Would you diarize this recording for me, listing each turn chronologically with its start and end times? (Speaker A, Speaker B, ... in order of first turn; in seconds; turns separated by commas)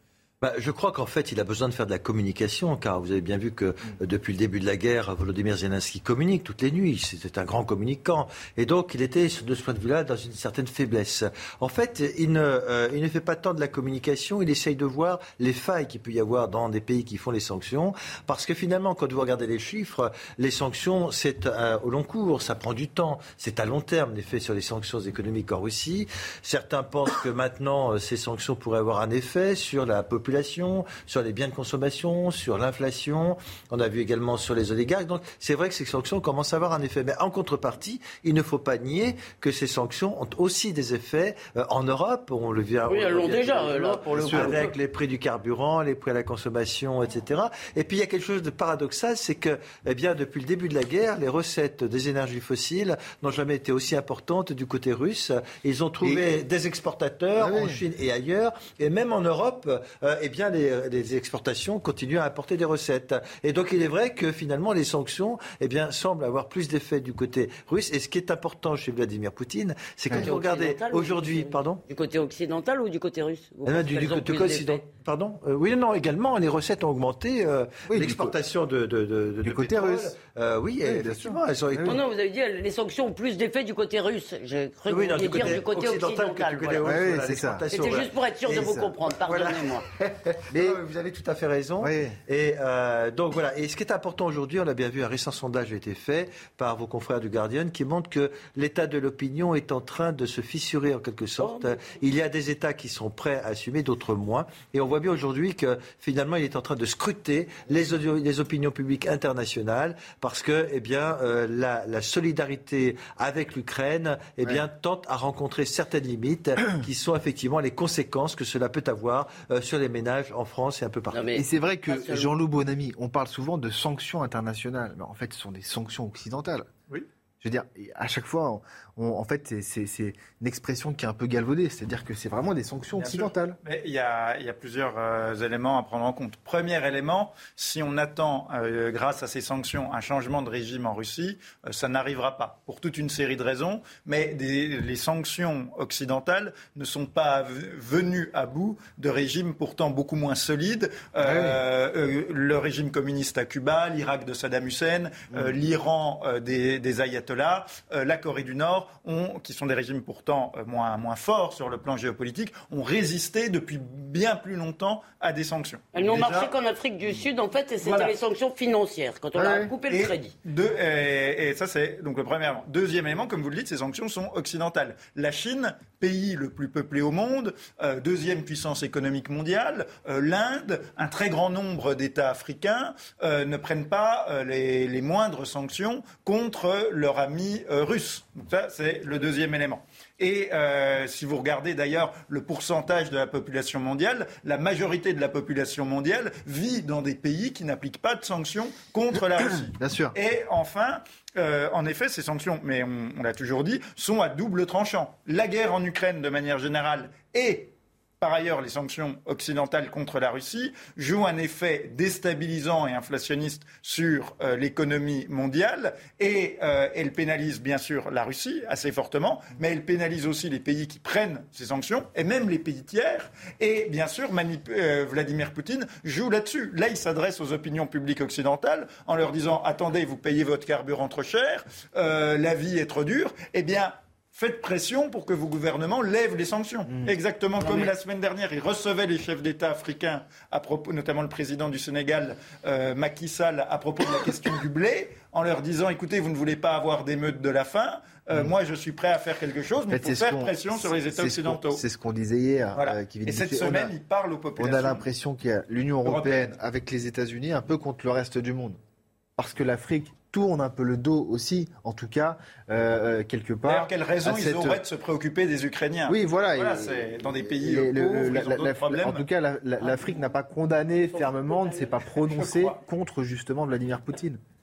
Speaker A: 0.4-71.8, Speaker B: 42.9-44.7, Speaker C: 44.2-44.6, Speaker C: 56.0-56.3, Speaker C: 57.4-57.8, Speaker B: 70.1-74.8, Speaker A: 73.6-82.0, Speaker C: 77.9-78.3, Speaker C: 79.4-80.1, Speaker C: 80.8-82.0, Speaker B: 81.8-87.0, Speaker A: 84.9-121.2, Speaker C: 86.8-87.6, Speaker B: 87.7-89.8, Speaker C: 90.5-90.8, Speaker C: 91.8-92.2, Speaker B: 101.4-101.6, Speaker B: 121.1-122.3, Speaker C: 121.3-126.7, Speaker C: 127.4-133.6, Speaker D: 132.9-166.5, Speaker C: 151.2-151.6, Speaker B: 165.9-170.3, Speaker D: 167.8-168.1, Speaker C: 169.3-169.7, Speaker D: 169.9-251.8, Speaker C: 199.5-200.1, Speaker C: 249.9-253.9, Speaker D: 252.7-255.0, Speaker C: 254.6-258.8, Speaker D: 256.0-256.6, Speaker C: 259.4-264.8, Speaker D: 263.6-269.2, Speaker C: 266.1-274.4, Speaker B: 271.5-271.8, Speaker D: 272.2-272.8